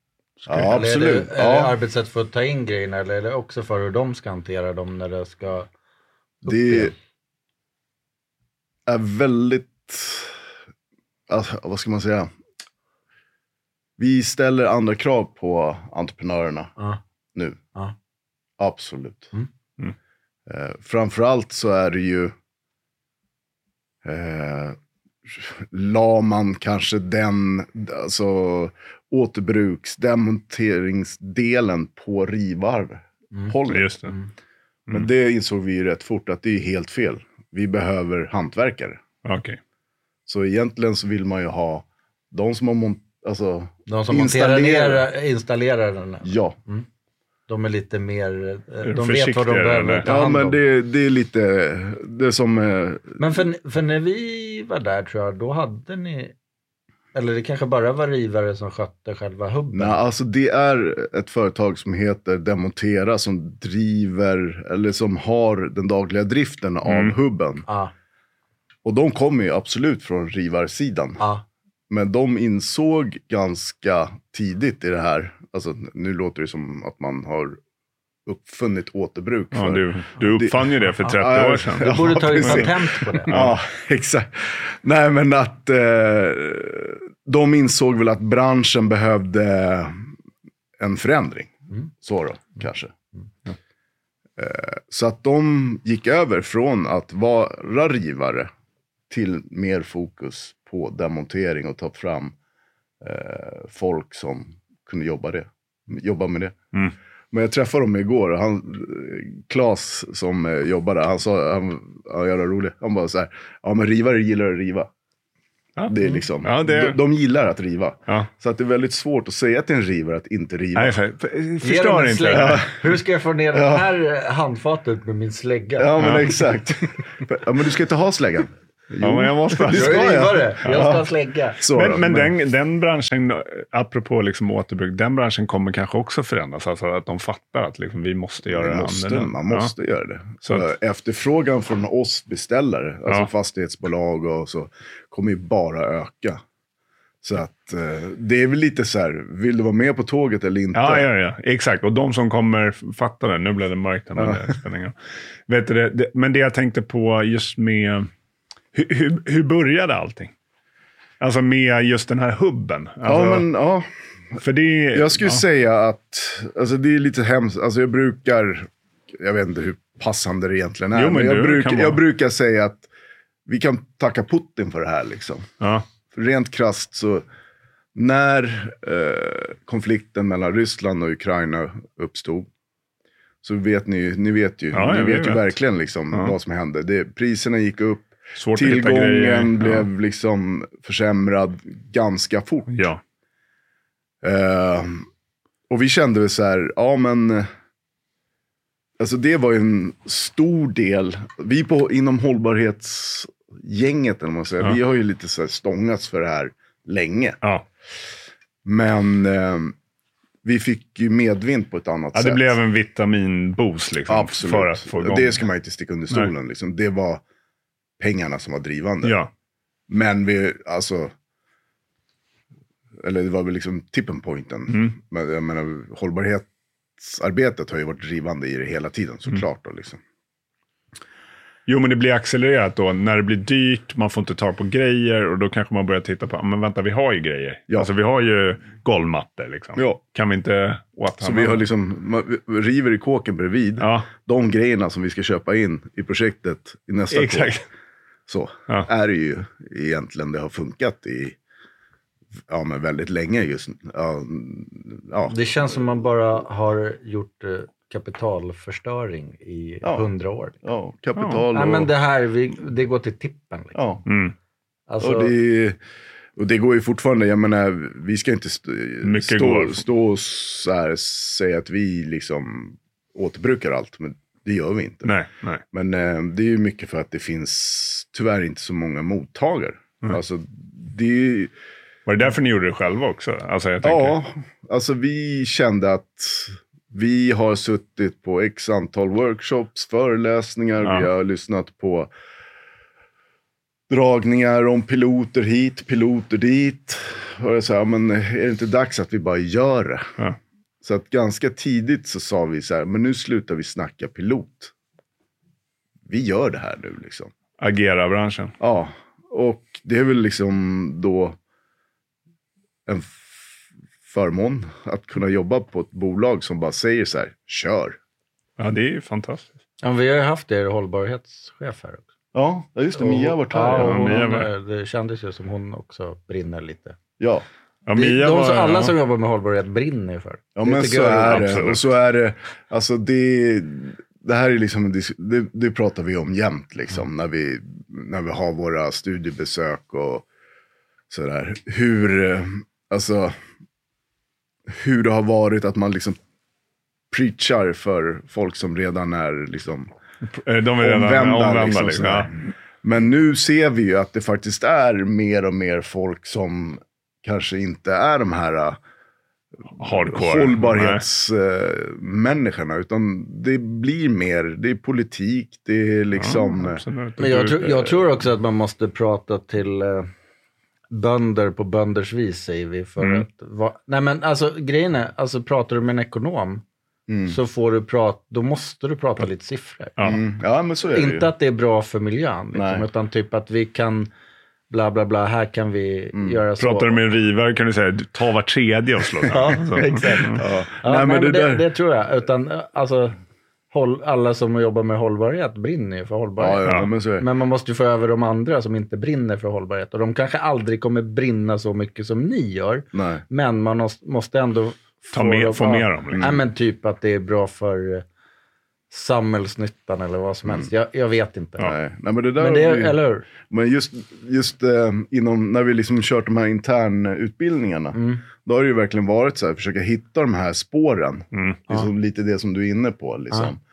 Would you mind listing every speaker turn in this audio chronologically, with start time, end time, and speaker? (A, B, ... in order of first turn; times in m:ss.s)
0:00.4-0:00.7 A
0:00.4-0:01.7 B
0:00.6-0:05.7 C
0:06.4-0:06.9 C
0:06.4-0:06.9 B
0:08.9-0:10.4 B
0:11.3-0:12.3 B
0:14.0-0:16.7 B
0:17.3-0:17.6 B
0:18.6-0:19.3 B
0:20.5-0:22.3 B
0:24.0-0:33.9 B
0:33.7-0:34.1 A
0:34.9-0:39.0 B
0:39.2-0:39.6 A
0:40.3-0:45.0 B
0:43.9-0:46.8 C
0:46.2-0:46.6 B
0:47.5-0:50.6 C
0:48.8-0:50.0 A
0:50.0-0:53.2 B
0:53.2-0:56.3 C
0:57.1-1:00.0 C
0:59.7-1:07.6 B
1:06.8-1:07.2 A
1:07.6-1:07.9 C
1:08.8-1:11.2 B
1:11.2-1:11.4 C
1:11.9-1:17.6 B
1:18.2-1:30.1 B
1:19.5-1:23.6 A
1:21.8-1:23.4 C
1:30.8-1:32.9 B
1:34.4-1:38.5 B
1:39.1-1:42.3 B
1:43.0-1:46.6 B
1:47.3-1:54.9 B
1:55.8-1:57.0 A
1:55.9-2:01.0 B
2:00.8-2:02.7 A
2:01.6-2:06.1 C
2:02.3-2:02.7 B
2:03.5-2:03.9 B
2:05.8-2:11.0 B
2:06.0-2:06.3 A
2:09.0-2:10.9 A
2:09.7-2:11.6 C
2:11.6-2:12.3 B
2:11.7-2:19.7 A
2:18.4-2:26.4 B
2:27.2-2:31.1 B
2:30.7-2:34.9 A
2:34.2-2:34.5 B
2:35.5-2:38.1 A
2:38.7-2:40.3 A
2:41.2-2:43.4 A
2:43.0-2:43.9 B
2:44.4-2:45.4 A
2:44.9-2:52.9 B
2:50.9-2:52.0 A
2:53.4-2:55.5 B
2:55.6-2:55.8 A
2:56.1-2:57.2 B
2:57.9-3:02.5 B
3:03.4-3:12.7 B
3:04.7-3:05.6 A
3:08.4-3:09.9 A
3:12.7-3:13.0 A
3:14.2-3:15.1 B
3:15.7-3:17.5 B
3:19.0-3:27.4 B
3:28.6-3:29.7 B
3:30.4-3:32.5 B
3:32.1-3:35.4 A
3:34.1-3:37.2 B
3:38.0-3:39.2 B
3:39.0-3:39.3 A
3:39.9-3:41.1 B
3:43.0-3:46.5 B
3:47.0-3:50.0 B
3:51.7-4:01.6 A
3:59.7-4:00.0 B
4:01.2-4:07.6 B
4:03.8-4:04.1 A
4:07.1-4:07.6 A
4:08.3-4:11.4 B
4:12.5-4:15.8 B
4:15.3-4:20.6 C
4:20.6-4:21.9 B
4:21.2-4:21.4 A
4:21.5-4:24.0 C
4:23.7-4:24.0 B
4:24.0-4:24.3 A
4:24.9-4:25.3 C
4:25.0-4:25.8 B
4:26.4-4:35.1 B
4:29.0-4:29.8 A
4:35.0-4:35.6 A
4:35.7-4:41.5 B
4:42.0-4:44.2 A
4:43.8-4:52.1 B
4:53.9-5:00.1 B
5:00.8-5:04.7 B
5:06.1-5:07.3 B
5:07.6-5:08.5 A
5:08.6-5:11.4 B
5:12.8-5:13.4 B
5:14.0-5:18.0 B
5:18.6-5:19.5 A
5:19.8-5:22.1 C
5:22.3-5:24.2 B
5:23.0-5:27.0 C
5:23.7-5:24.5 A
5:27.2-5:27.4 B
5:27.8-5:28.9 A
5:27.9-5:31.6 C
5:30.6-5:40.2 B
5:31.2-5:31.8 A
5:41.1-5:43.4 B
5:44.7-5:46.2 B
5:47.1-5:49.9 B
5:50.3-5:52.3 A
5:50.8-5:58.8 B
5:59.8-6:01.0 A
5:59.8-6:06.8 B
6:06.2-6:08.1 A
6:07.2-6:10.1 C
6:10.9-6:16.6 C
6:13.0-6:13.2 A
6:17.1-6:17.4 B
6:17.3-6:20.1 C
6:20.0-6:21.3 B
6:20.9-6:24.1 C
6:22.5-6:22.8 B
6:24.7-6:27.0 C
6:26.1-6:26.4 B
6:26.6-6:30.4 A
6:29.3-6:33.2 C
6:30.2-6:31.6 B
6:33.7-6:48.0 C
6:36.4-6:37.2 B
6:42.9-6:43.2 B
6:45.1-6:46.3 A
6:46.1-6:46.4 B
6:48.9-6:51.7 C
6:51.6-7:03.6 B
6:52.4-6:53.2 C
6:57.9-6:58.2 C
7:01.3-7:01.6 A